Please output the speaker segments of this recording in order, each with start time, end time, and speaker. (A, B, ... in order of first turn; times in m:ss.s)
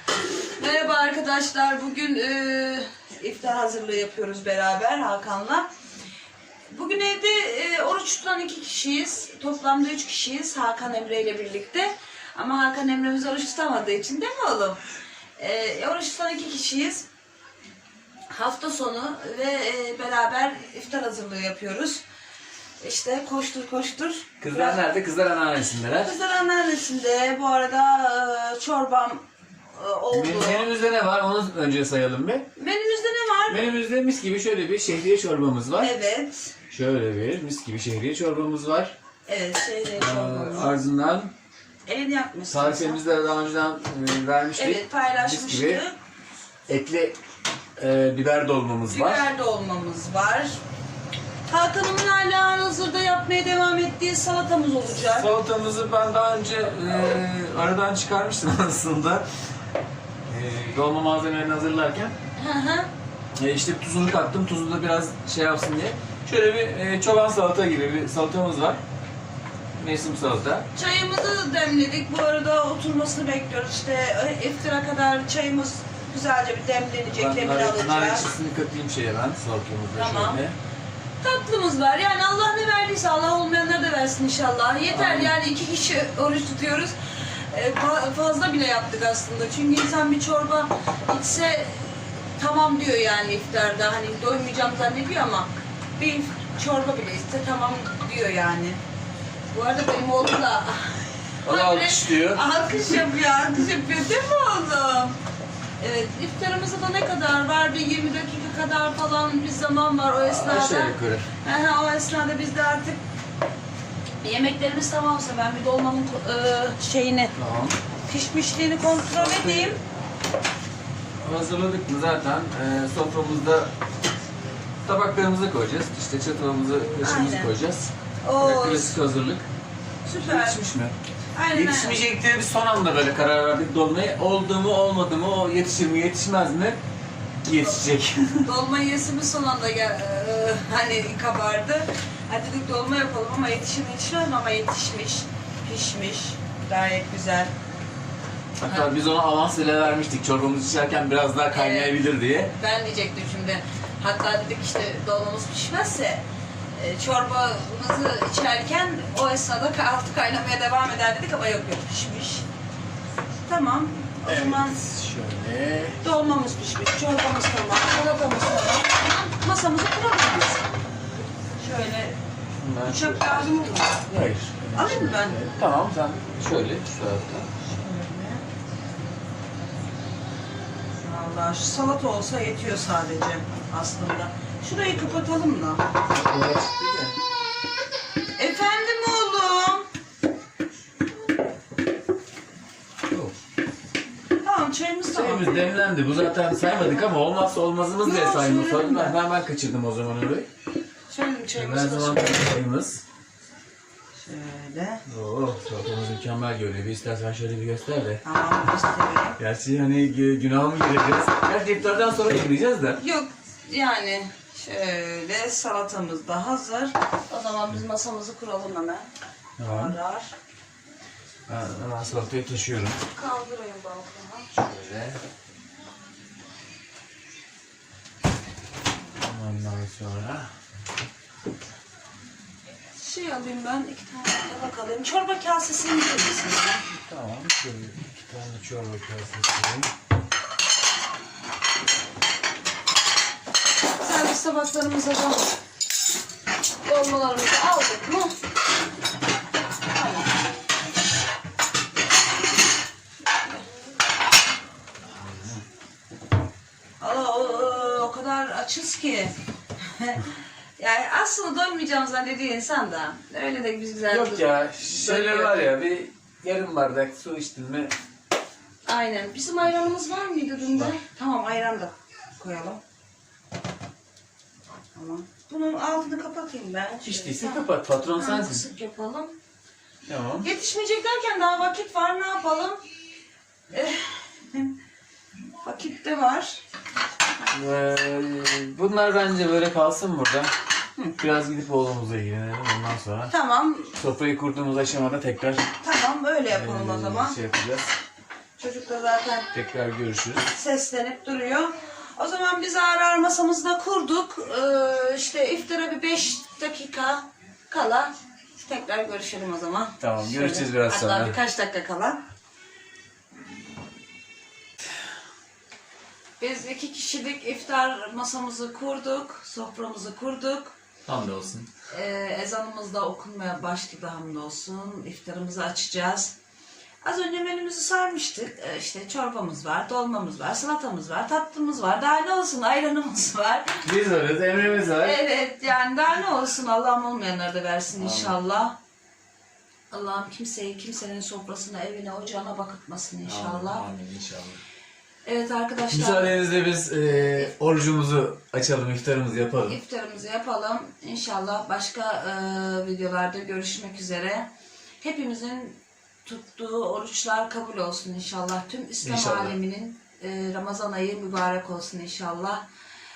0:00.6-0:05.7 A
0:06.7-0:14.8 A
0:15.4-0:17.0 A
0:18.3-0:22.0 A
0:22.8-0:24.8 A
0:24.4-0:26.1 B
0:26.0-0:30.7 A
0:30.1-0:32.5 B
0:32.6-0:33.7 A
0:33.5-0:35.9 B
0:35.8-0:36.5 A
0:36.7-0:38.9 B
0:39.3-0:40.8 A
0:40.0-0:41.3 B
0:41.8-0:43.0 A
0:42.5-0:45.8 B
0:44.6-0:45.9 A
0:46.7-0:47.2 B
0:47.8-0:49.3 B
0:48.9-0:50.6 A
0:51.5-0:55.3 A
0:55.0-0:59.3 B
1:00.3-1:02.2 B
1:02.4-1:02.9 A
1:03.4-1:08.8 B
1:09.8-1:10.7 B
1:10.7-1:18.3 A
1:17.1-1:20.5 B
1:19.9-1:20.4 A
1:21.2-1:38.8 A
1:24.9-1:25.3 B
1:39.5-1:45.2 A
1:41.4-1:42.4 B
1:45.8-1:53.0 A
1:50.2-1:51.2 B
1:54.2-1:57.3 A
1:57.4-1:57.8 B
1:58.1-1:59.8 A
1:59.1-1:59.8 B
2:01.2-2:03.7 B
2:04.8-2:09.4 B
2:07.0-2:07.5 A
2:08.2-2:09.0 A
2:10.0-2:10.6 A
2:10.2-2:11.0 B
2:11.3-2:12.0 A
2:11.5-2:16.8 B
2:17.4-2:18.4 B
2:18.4-2:27.5 A
2:28.6-2:32.5 B
2:28.6-2:28.9 A
2:31.5-2:36.2 A
2:36.7-2:42.4 A
2:43.4-2:44.8 A
2:44.2-2:46.0 B
2:46.0-2:50.7 A
2:51.6-2:52.2 A
2:52.6-2:53.3 B
2:52.8-2:54.0 A
2:54.1-2:57.5 B
2:54.7-2:55.4 A
2:57.6-2:58.4 A
3:01.0-3:05.8 A
3:06.1-3:07.2 B
3:08.4-3:09.9 A
3:14.4-3:15.7 A
3:15.1-3:20.5 B
3:18.0-3:19.2 A
3:21.1-3:22.4 A
3:21.5-3:23.0 B
3:24.2-3:25.0 A
3:25.1-3:28.2 B
3:28.2-3:29.4 A
3:29.4-3:33.0 B
3:33.0-3:39.1 A
3:39.6-3:40.0 B
3:39.6-3:40.3 A
3:41.5-3:43.0 B
3:43.1-3:44.5 A
3:44.5-3:45.2 B
3:49.2-3:50.5 B
3:52.9-3:56.8 A
3:56.9-3:59.9 B
4:04.0-4:05.5 A
4:06.8-4:08.3 A
4:09.9-4:10.3 A
4:15.1-4:15.6 B
4:17.0-4:19.3 A
4:19.9-4:25.7 A
4:24.1-4:27.9 B
4:28.8-4:32.8 A
4:34.9-4:37.6 A
4:37.0-4:38.6 B
4:38.2-4:39.4 A
4:40.0-4:40.5 B
4:40.4-4:42.8 A
4:43.7-4:44.7 A
4:45.6-4:46.6 A
4:47.5-4:50.5 B
4:51.2-4:53.3 B
4:53.3-4:54.0 A
4:54.0-4:55.7 B
4:55.8-4:57.3 A
4:56.5-4:57.9 B
4:58.6-4:59.5 A
4:59.5-5:00.5 B
5:00.5-5:12.2 A
5:10.0-5:11.4 B
5:16.4-5:20.7 A
5:21.0-5:21.7 B
5:21.9-5:26.3 A
5:27.0-5:33.8 A
5:33.8-5:35.2 B
5:34.8-5:38.8 A
5:38.0-5:38.4 B
5:39.9-5:43.8 A
5:43.2-5:44.6 B
5:45.2-5:46.6 A
5:45.9-5:49.8 B
5:49.7-5:54.5 A
5:55.0-6:02.6 A
5:59.0-5:59.6 B